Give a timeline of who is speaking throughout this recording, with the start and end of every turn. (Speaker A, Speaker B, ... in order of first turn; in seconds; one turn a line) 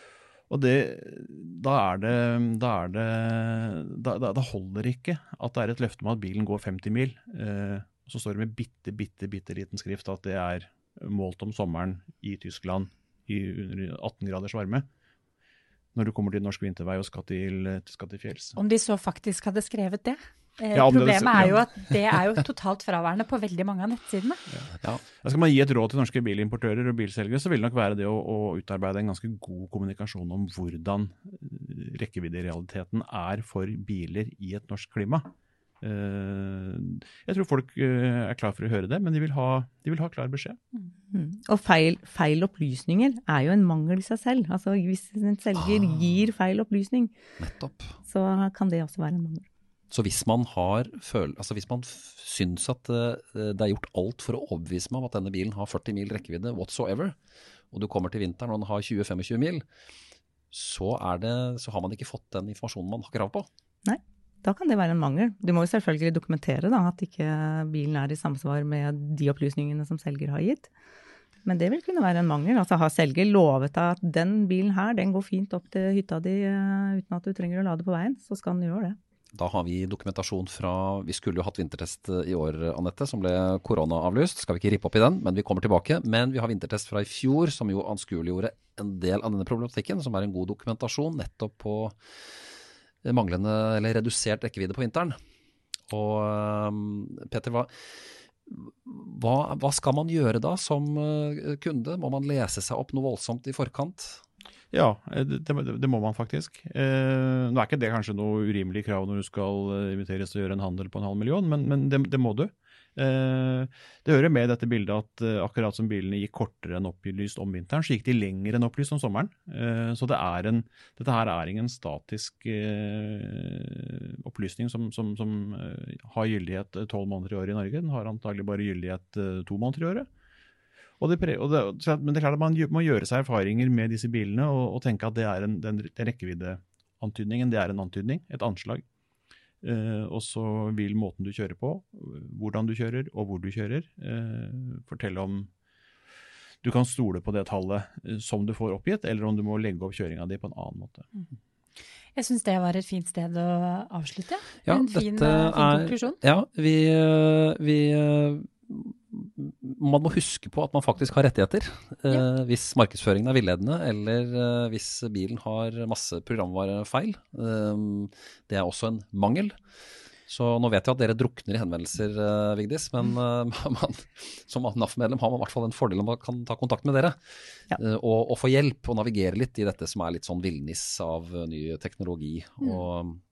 Speaker A: 0.5-14.9
Speaker A: 15.9-18.6
Speaker B: 18.6-24.4
Speaker A: 20.7-21.6
Speaker A: 24.5-40.6
Speaker C: 41.1-47.1
Speaker D: 47.4-48.0
Speaker C: 48.0-49.5
Speaker D: 49.9-57.2
Speaker D: 57.7-59.6
Speaker D: 60.5-63.5
Speaker C: 63.9-70.7
Speaker C: 71.4-79.0
Speaker D: 79.3-92.0
Speaker D: 93.0-95.2
Speaker D: 95.9-97.7
Speaker D: 98.5-104.2
Speaker A: 104.7-130.1
Speaker A: 131.0-138.8
Speaker A: 139.6-145.5
Speaker A: 146.6-151.1
Speaker B: 152.2-156.2
Speaker D: 154.7-169.6
Speaker D: 170.3-177.2
Speaker D: 177.7-183.2